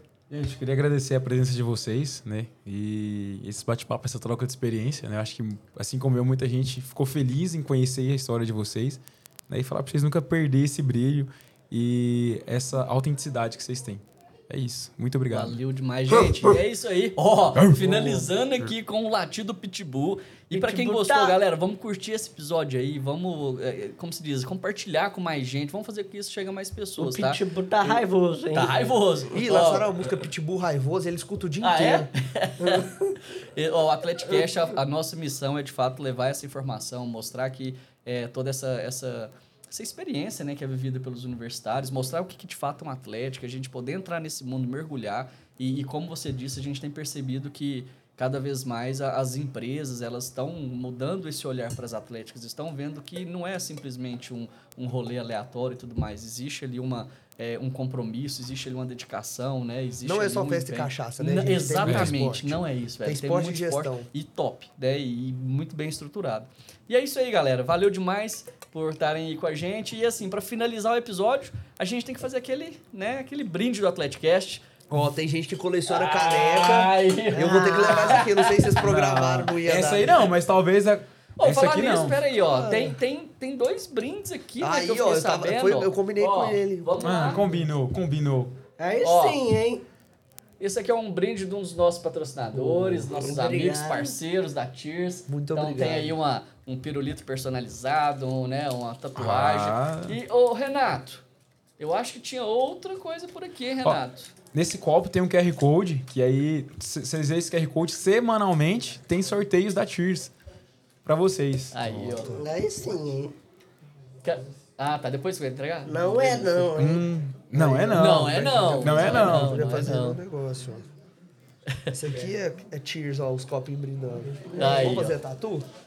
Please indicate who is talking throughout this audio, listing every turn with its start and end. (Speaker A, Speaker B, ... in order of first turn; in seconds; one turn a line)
Speaker A: 0.3-15.6
Speaker B: 15.3-28.0
Speaker A: 16.1-16.6
Speaker A: 17.6-18.7
Speaker C: 20.5-21.4
Speaker C: 27.0-28.7
Speaker B: 28.5-30.3
Speaker D: 29.3-32.1
Speaker B: 31.6-74.7
Speaker C: 32.6-33.1
Speaker D: 60.0-64.1
Speaker A: 61.8-62.1
Speaker D: 74.9-80.3
Speaker B: 75.9-78.8
Speaker A: 78.8-82.2
Speaker B: 81.4-87.5
Speaker C: 82.6-82.9
Speaker D: 84.6-87.1
Speaker A: 87.0-88.5
Speaker C: 88.8-89.8
Speaker B: 89.0-89.4
Speaker B: 90.6-101.2
Speaker C: 92.9-94.2
Speaker D: 95.3-96.2
Speaker A: 99.2-100.2
Speaker B: 101.8-104.3
Speaker A: 103.8-110.3
Speaker A: 111.0-112.3
Speaker B: 111.7-112.4
Speaker C: 112.2-113.3
Speaker B: 114.2-116.7
Speaker C: 115.8-117.1
Speaker A: 116.8-119.5
Speaker D: 117.5-120.8
Speaker B: 117.9-120.2
Speaker B: 121.7-122.0
Speaker D: 121.9-125.7
Speaker C: 124.5-125.0
Speaker B: 124.5-125.2